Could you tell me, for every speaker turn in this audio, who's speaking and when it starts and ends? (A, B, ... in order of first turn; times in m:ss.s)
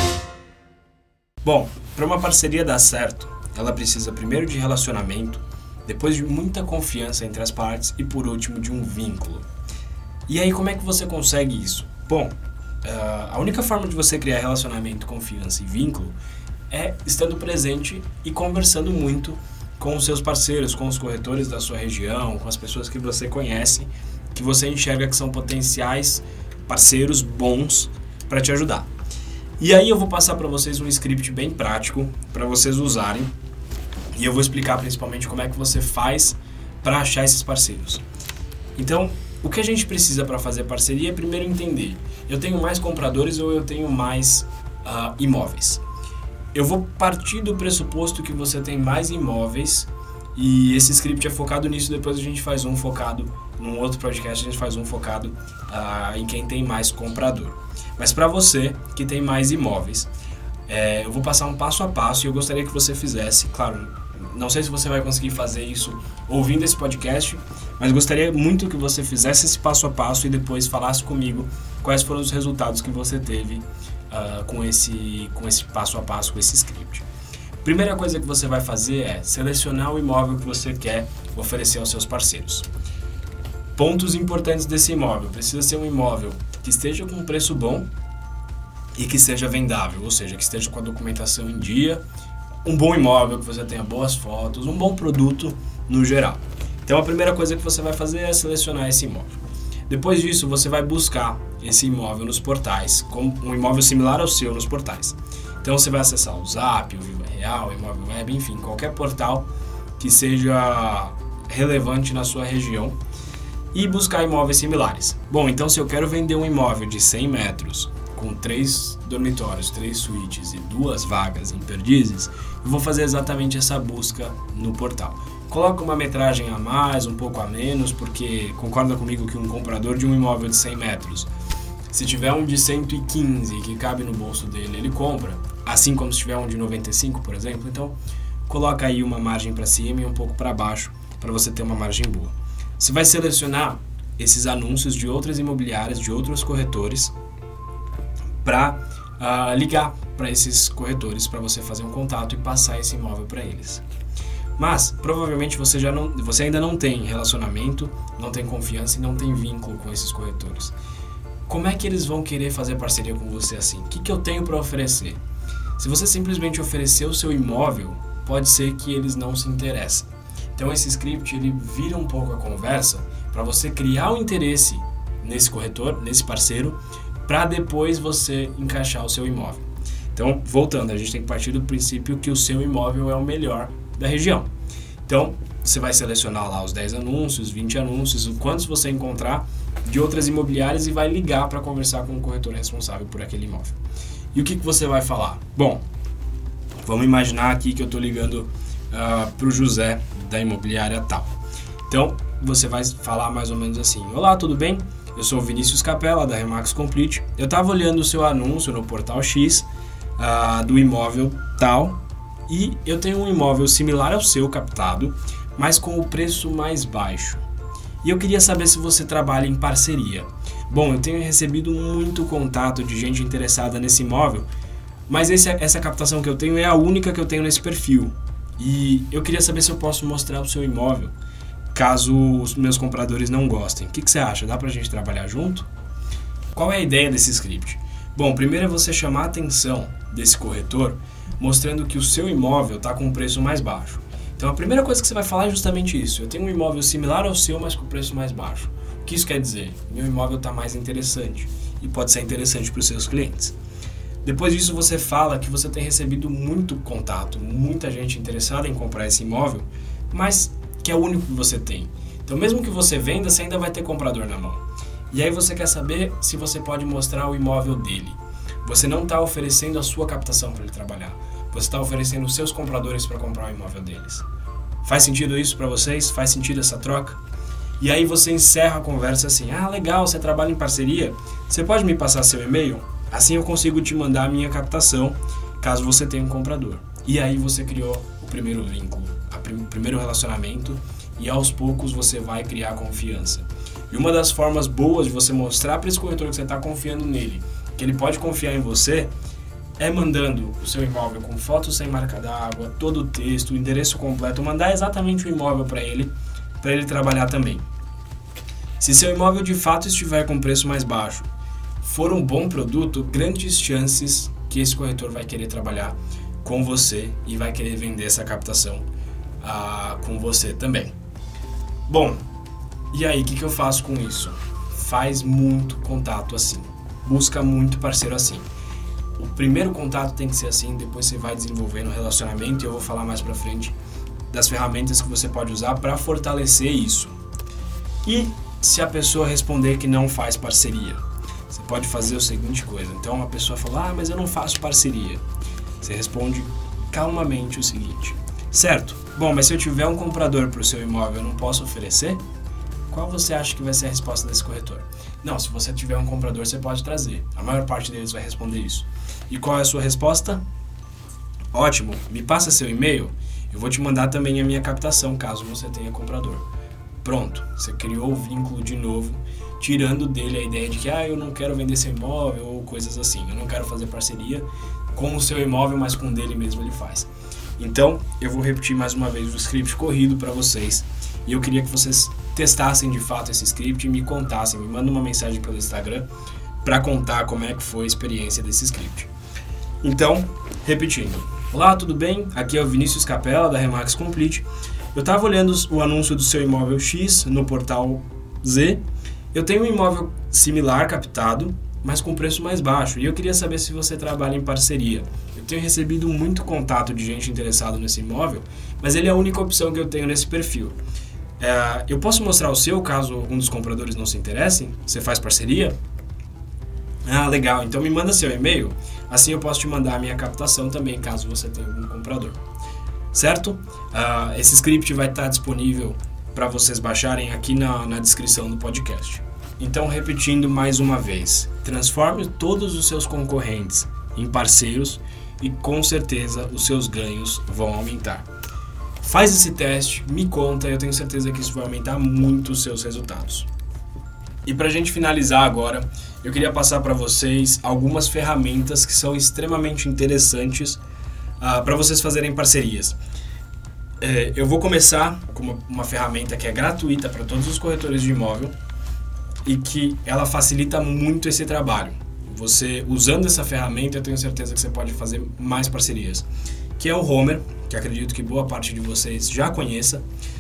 0:01.4-0:09.5 A
0:10.3-0:16.2 A
0:16.7-0:28.9 A
0:29.6-0:33.3 A
0:34.1-0:38.0 A
0:38.8-0:45.8 A
0:46.5-1:00.1 A
1:00.7-1:17.0 A
1:17.6-1:22.7 A
1:23.8-1:27.9 A
1:29.0-1:32.0 A
1:32.6-1:39.3 A
1:39.9-1:53.0 A
1:53.7-2:11.3 A
2:11.9-2:27.1 A
2:28.4-2:33.8 A
2:34.6-2:40.8 A
2:41.5-2:45.2 A
2:45.8-3:04.5 A
3:05.1-3:13.8 A
3:14.3-3:15.8 A
3:16.8-3:37.4 A
3:38.0-3:44.5 A
3:45.1-3:51.1 A
3:51.7-3:55.7 A
3:56.5-4:13.6 A
4:14.2-4:34.3 A
4:34.8-4:37.2 A
4:37.8-4:59.1 A
4:59.8-5:07.6 A
5:08.8-5:11.3 A
5:11.8-5:18.9 A
5:19.4-5:20.9 A
5:21.9-5:22.2 A
5:22.9-5:28.4 A
5:29.2-5:33.8 A
5:34.3-5:37.1 A
5:38.0-5:45.2 A
5:45.8-5:52.2 A
5:52.9-6:00.4 A
6:01.5-6:06.5 A
6:07.0-6:26.1 A
6:26.6-6:29.1 A
6:29.8-6:38.8 A
6:39.3-6:50.8 A
6:51.4-6:55.8 A
6:57.0-7:02.4 A
7:03.1-7:18.3 A
7:19.0-7:23.5 A
7:24.5-7:30.8 A
7:31.4-7:33.0 A
7:34.0-7:38.5 A
7:39.5-7:46.3 A
7:46.8-7:50.0 A